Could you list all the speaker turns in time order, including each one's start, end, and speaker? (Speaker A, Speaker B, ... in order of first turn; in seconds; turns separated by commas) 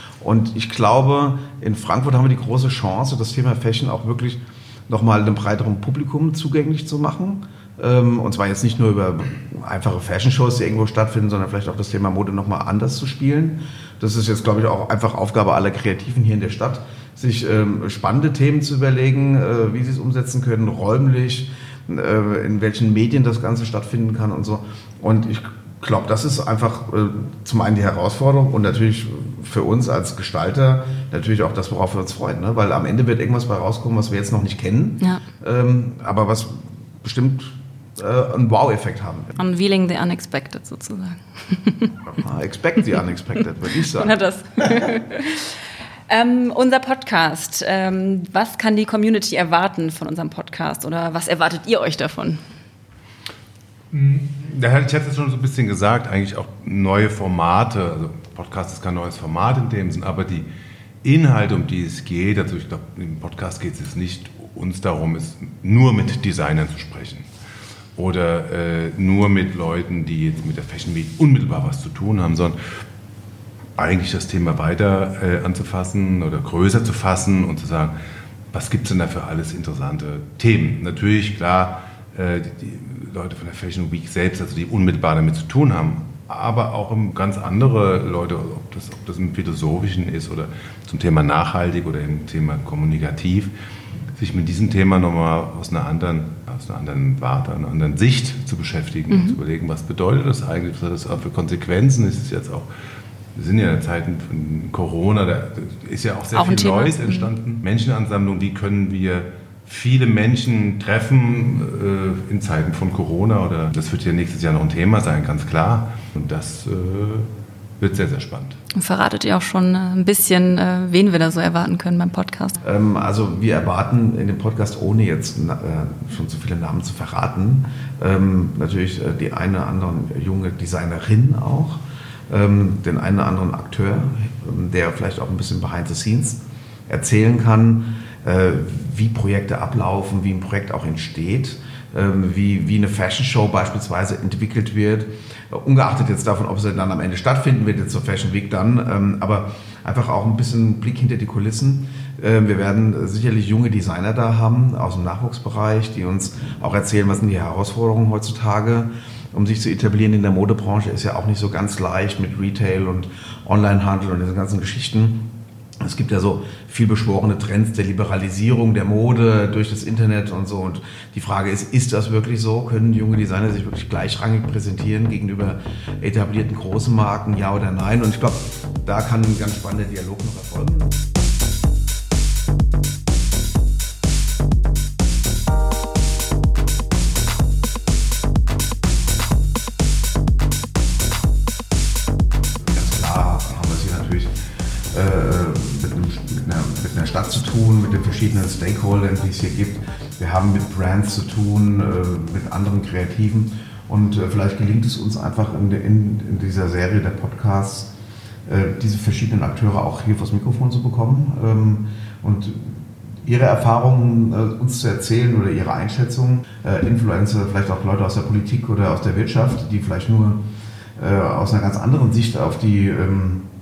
Speaker A: 0.2-39.4, Speaker B: 39.4-41.9, Speaker A: 42.2-44.2, Speaker B: 43.9-45.6, Speaker B: 46.1-52.4, Speaker C: 53.9-60.5, Speaker C: 61.0-67.2, Speaker C: 68.0-72.6, Speaker C: 73.8-78.0, Speaker C: 78.5-93.5, Speaker C: 94.2-102.7, Speaker B: 99.1-99.4, Speaker C: 103.4-117.3, Speaker B: 106.3-107.3, Speaker C: 117.8-118.6, Speaker B: 118.7-122.6, Speaker A: 122.6-165.2, Speaker A: 165.8-180.9, Speaker A: 192.6-194.3, Speaker A: 194.9-207.9, Speaker A: 208.5-220.4, Speaker A: 221.0-223.4